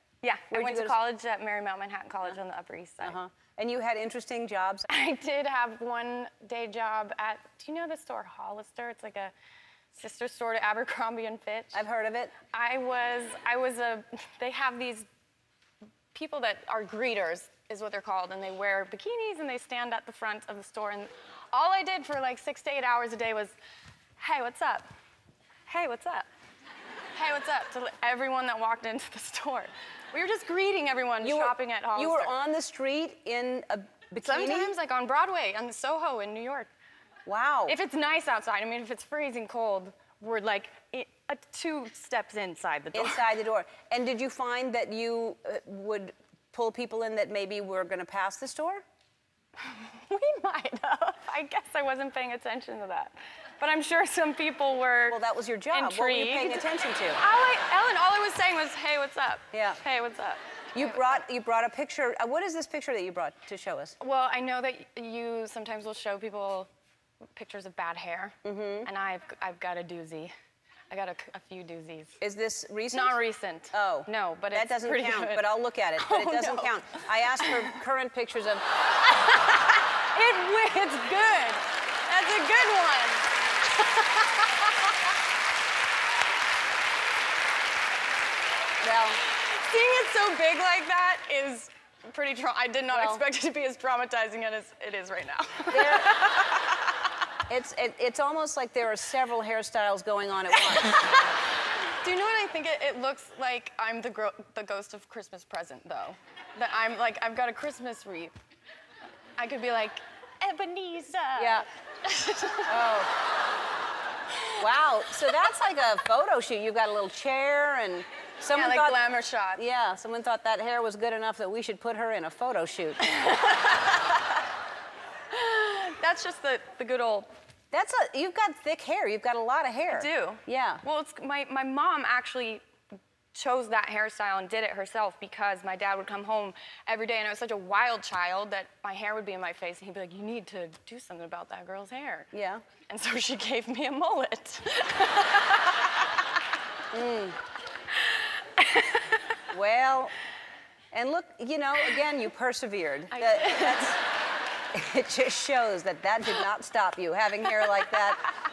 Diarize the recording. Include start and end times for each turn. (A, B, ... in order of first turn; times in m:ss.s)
0:00.2-0:03.2 A
0:00.5-0:00.9 B
0:03.0-0:04.9 B
0:04.9-0:09.3 A
0:09.9-0:11.8 A
0:11.7-0:12.3 B
0:12.5-0:15.1 A
0:16.1-0:23.6 A
0:24.2-0:24.9 A
0:25.7-0:26.3 A
0:27.1-0:32.3 A
0:31.2-0:34.7 B
0:34.2-0:36.7 A
0:37.2-0:37.8 B
0:37.7-0:43.2 A
0:42.9-0:48.8 B
0:49.6-0:55.2 A
0:55.1-0:57.2 B
0:55.7-1:01.0 A
0:59.5-0:59.8 B
1:00.7-1:04.0 B
1:04.0-1:06.7 A
1:07.3-1:10.3 A
1:08.4-1:08.9 B
1:10.9-1:12.2 A
1:12.2-1:13.2 B
1:12.9-1:17.8 A
1:13.7-1:18.6 B
1:19.1-1:24.9 A
1:28.8-1:29.2 B
1:29.2-1:36.9 A
1:32.9-1:33.2 B
1:35.7-1:36.2 B
1:37.5-1:41.0 B
1:40.5-1:41.2 A
1:42.0-1:48.3 A
1:49.4-1:52.8 A
1:51.4-1:51.6 B
1:52.7-1:53.1 B
1:54.6-1:59.0 B
1:58.5-1:59.6 A
1:59.6-2:03.1 B
2:03.0-2:04.3 A
2:05.3-2:07.3 A
2:07.7-2:10.8 B
2:09.9-2:12.6 A
2:13.3-2:22.3 A
2:22.3-2:22.6 B
2:22.9-2:26.2 A
2:26.9-2:27.4 B
2:28.0-2:29.2 A
2:29.5-2:30.1 B
2:30.9-2:34.0 B
2:33.1-2:34.0 A
2:34.7-2:38.3 B